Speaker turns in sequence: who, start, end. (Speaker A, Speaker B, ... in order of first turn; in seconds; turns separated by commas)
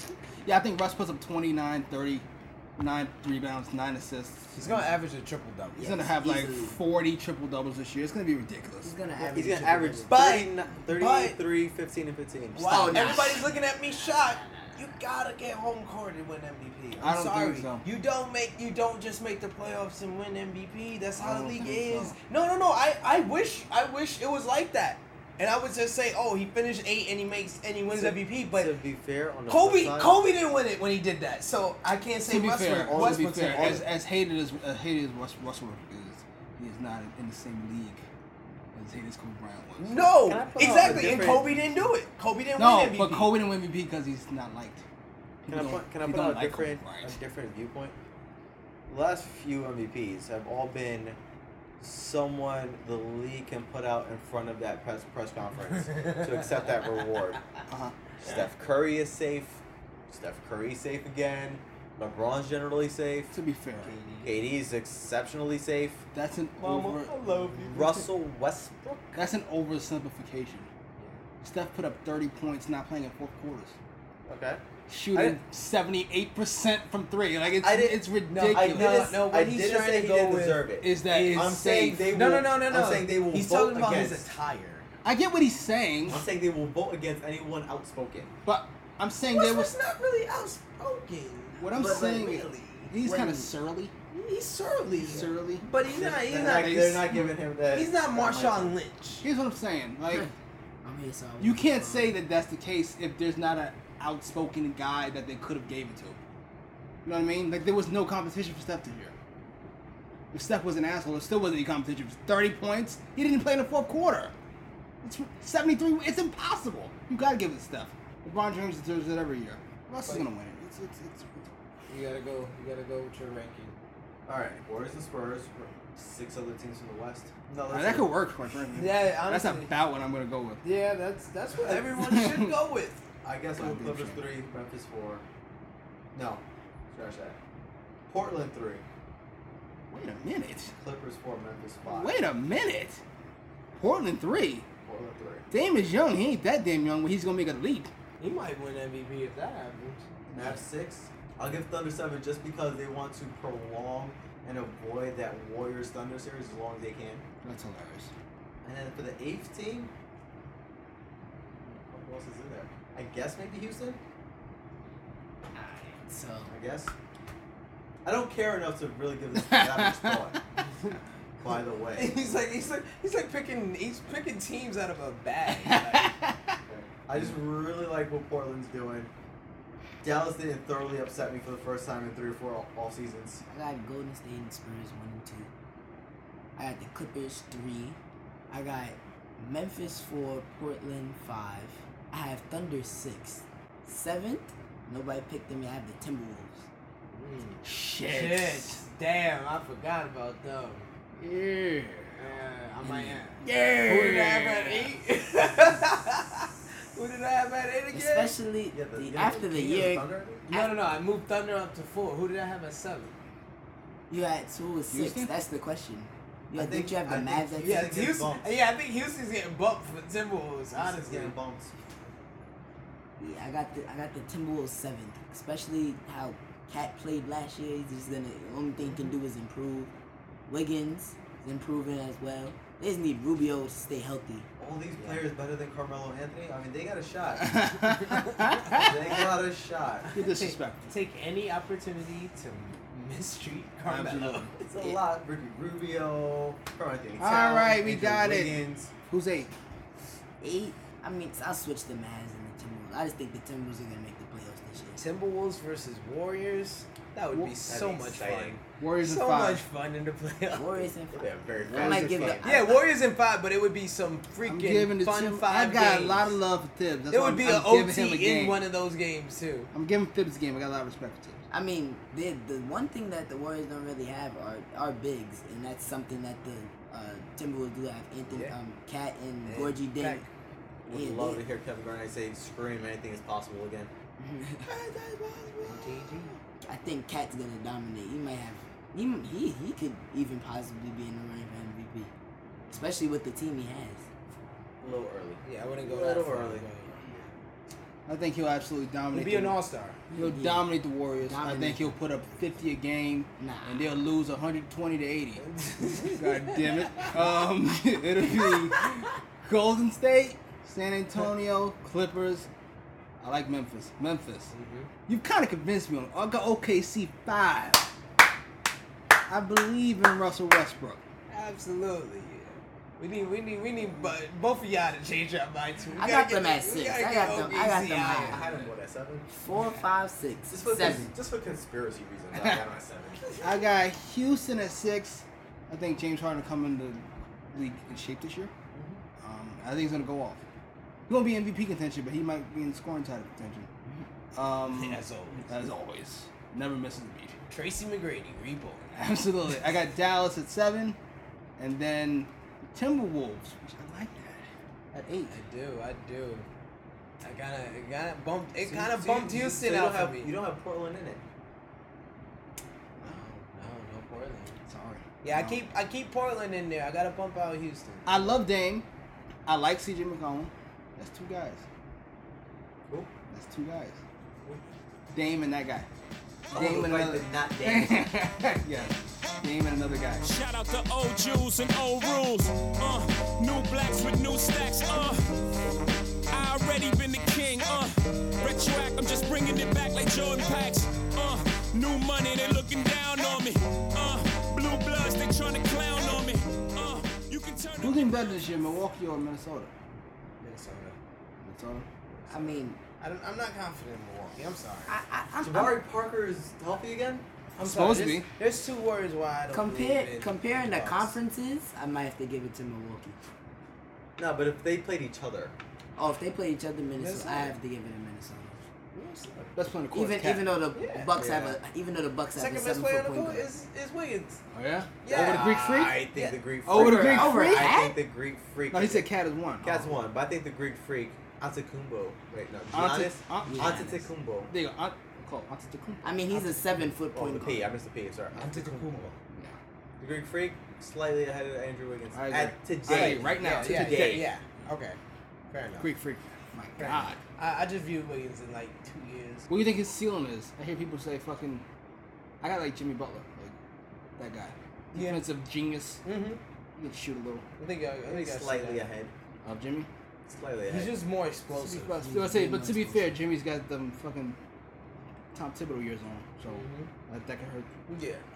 Speaker A: 0.4-2.2, Speaker A: 2.8-4.9, Speaker B: 4.5-6.0, Speaker C: 5.8-6.8, Speaker A: 5.8-8.9, Speaker C: 8.8-10.4, Speaker B: 9.2-9.5, Speaker D: 9.3-13.3, Speaker B: 10.1-11.4, Speaker B: 12.6-28.7, Speaker C: 12.6-13.6, Speaker A: 17.0-17.8, Speaker A: 21.2-22.1, Speaker D: 27.9-30.2, Speaker B: 29.5-33.8, Speaker A: 32.3-38.0, Speaker D: 32.9-33.8, Speaker A: 38.7-41.6, Speaker B: 39.8-43.3, Speaker D: 40.2-41.5, Speaker A: 42.6-44.8, Speaker A: 45.4-47.1, Speaker D: 45.5-47.9, Speaker D: 48.9-51.2, Speaker D: 51.8-57.4, Speaker A: 57.7-57.9, Speaker D: 58.2-63.3, Speaker A: 63.3-64.0, Speaker B: 63.8-64.4, Speaker D: 64.2-66.0, Speaker A: 66.1-67.1, Speaker B: 66.6-68.0, Speaker D: 67.3-69.2, Speaker A: 69.1-70.7, Speaker A: 71.4-73.7, Speaker D: 74.3-74.6, Speaker A: 74.9-79.0, Speaker D: 77.6-84.2, Speaker B: 78.3-84.9, Speaker A: 80.8-82.0, Speaker A: 85.0-86.2, Speaker D: 86.0-88.3, Speaker A: 88.4-89.7, Speaker B: 89.3-92.9, Speaker A: 91.6-93.9, Speaker C: 91.7-92.2, Speaker C: 93.0-93.5, Speaker B: 94.1-97.0, Speaker A: 95.0-97.2, Speaker D: 95.8-98.7, Speaker B: 97.7-99.2, Speaker A: 99.2-100.3, Speaker C: 100.8-102.1, Speaker A: 101.4-106.2, Speaker A: 107.0-109.1, Speaker A: 110.3-114.3, Speaker A: 115.0-121.5, Speaker B: 121.9-123.7, Speaker D: 124.3-128.1, Speaker A: 127.7-130.6, Speaker B: 128.7-129.7, Speaker B: 130.6-133.0, Speaker D: 131.6-131.9, Speaker A: 131.9-132.6, Speaker D: 133.2-135.2, Speaker A: 133.6-134.2, Speaker D: 136.1-137.4, Speaker D: 138.1-138.8, Speaker A: 139.9-140.7, Speaker D: 140.8-142.1, Speaker A: 141.9-143.0, Speaker A: 143.8-144.7, Speaker D: 144.9-145.5, Speaker A: 145.5-147.9, Speaker B: 148.2-150.1, Speaker D: 150.3-157.2, Speaker A: 157.4-158.1, Speaker D: 158.6-159.9, Speaker D: 161.8-164.0, Speaker C: 165.6-166.5, Speaker D: 166.5-166.9, Speaker D: 168.1-170.4, Speaker A: 169.4-170.4, Speaker B: 170.6-170.9, Speaker D: 171.4-172.2, Speaker B: 171.9-176.1, Speaker A: 175.6-176.4, Speaker D: 176.7-179.1, Speaker D: 180.0-183.4, Speaker C: 183.5-185.5, Speaker C: 186.6-188.0, Speaker C: 188.5-196.6, Speaker B: 197.1-200.9, Speaker A: 197.6-198.8, Speaker A: 201.2-202.2, Speaker B: 202.2-208.3, Speaker C: 202.8-203.2, Speaker A: 203.4-204.9, Speaker C: 207.9-210.8, Speaker D: 208.7-210.4, Speaker B: 210.5-213.1, Speaker C: 214.1-217.9, Speaker A: 214.9-215.3, Speaker D: 216.5-218.5, Speaker B: 217.6-221.3, Speaker D: 220.7-221.7, Speaker C: 223.2-229.9, Speaker C: 230.5-234.5, Speaker D: 234.6-237.6, Speaker A: 237.4-238.9, Speaker D: 238.7-240.1, Speaker B: 240.1-244.5, Speaker A: 240.1-240.9, Speaker A: 243.8-244.5, Speaker D: 244.6-248.9, Speaker A: 247.2-249.5, Speaker C: 250.4-255.0, Speaker B: 254.9-260.9, Speaker A: 257.3-257.6, Speaker D: 257.7-258.6, Speaker A: 258.8-259.6, Speaker C: 260.5-262.8, Speaker D: 261.1-262.4, Speaker B: 261.8-266.3, Speaker A: 264.4-268.6, Speaker B: 267.1-269.7, Speaker A: 269.7-271.4, Speaker C: 271.5-280.2, Speaker B: 278.3-278.6, Speaker B: 279.4-280.3, Speaker D: 280.9-283.9, Speaker C: 280.9-281.4, Speaker C: 284.2-284.7, Speaker A: 284.7-286.3, Speaker B: 285.6-286.3, Speaker C: 286.6-292.1, Speaker C: 292.7-294.0, Speaker D: 294.8-297.2, Speaker B: 295.4-296.9, Speaker A: 298.1-299.6, Speaker B: 299.1-300.0, Speaker C: 300.1-302.0, Speaker A: 300.1-312.5, Speaker C: 303.4-303.9, Speaker B: 305.4-307.1, Speaker A: 313.2-314.5, Speaker B: 314.5-314.9, Speaker A: 315.1-317.9, Speaker A: 319.3-321.0, Speaker B: 321.3-328.6, Speaker C: 326.0-328.4, Speaker D: 328.2-329.2, Speaker C: 329.3-331.1, Speaker D: 330.5-333.4, Speaker A: 332.4-332.6, Speaker B: 333.3-333.6, Speaker A: 333.4-338.5, Speaker D: 338.7-339.0, Speaker A: 339.2-340.4, Speaker A: 341.1-343.7, Speaker A: 344.3-347.4, Speaker B: 344.6-345.5, Speaker B: 347.5-348.9, Speaker A: 348.9-351.0, Speaker A: 351.6-355.3, Speaker B: 355.3-356.4, Speaker B: 357.2-360.3, Speaker D: 358.6-361.2, Speaker B: 363.0-364.6, Speaker A: 364.7-365.6, Speaker B: 365.2-368.4, Speaker A: 368.1-368.9, Speaker A: 369.4-371.6, Speaker A: 373.3-374.0, Speaker A: 375.1-375.9, Speaker A: 376.5-380.3, Speaker D: 376.5-378.2, Speaker E: 380.2-385.2, Speaker E: 386.3-398.5, Speaker A: 397.8-399.7, Speaker B: 400.4-400.9, Speaker A: 401.4-401.9, Speaker B: 402.1-404.9, Speaker C: 402.3-402.8, Speaker C: 404.9-405.8, Speaker D: 405.4-407.2, Speaker B: 407.6-411.1, Speaker A: 407.6-408.2, Speaker C: 409.5-413.1, Speaker D: 414.2-415.5, Speaker C: 415.9-418.6, Speaker B: 417.0-417.5, Speaker B: 418.9-419.5, Speaker A: 419.6-420.5, Speaker C: 419.9-423.5, Speaker B: 420.7-421.1, Speaker D: 421.1-421.6, Speaker B: 422.3-424.4, Speaker A: 424.5-426.0, Speaker B: 425.0-426.4, Speaker D: 425.1-429.1, Speaker A: 426.6-427.8, Speaker C: 426.7-428.0, Speaker A: 428.7-430.0, Speaker D: 429.6-434.5, Speaker A: 432.7-436.1, Speaker C: 433.5-434.0, Speaker C: 436.0-437.7, Speaker D: 437.1-439.1, Speaker B: 438.4-439.1, Speaker D: 440.0-444.3, Speaker A: 442.1-444.3, Speaker B: 442.9-445.0, Speaker B: 445.5-445.9, Speaker A: 445.8-447.2, Speaker B: 446.8-449.5, Speaker A: 449.5-451.6, Speaker A: 452.4-453.6, Speaker A: 454.2-456.0, Speaker B: 454.9-455.2, Speaker B: 456.1-456.4, Speaker A: 456.8-457.4, Speaker B: 457.6-458.8, Speaker D: 458.1-459.1, Speaker A: 459.4-459.9, Speaker D: 460.3-460.9, Speaker B: 460.7-462.0, Speaker A: 461.5-464.4, Speaker C: 461.9-463.1, Speaker A: 465.3-467.7, Speaker B: 466.5-466.9, Speaker B: 467.9-468.2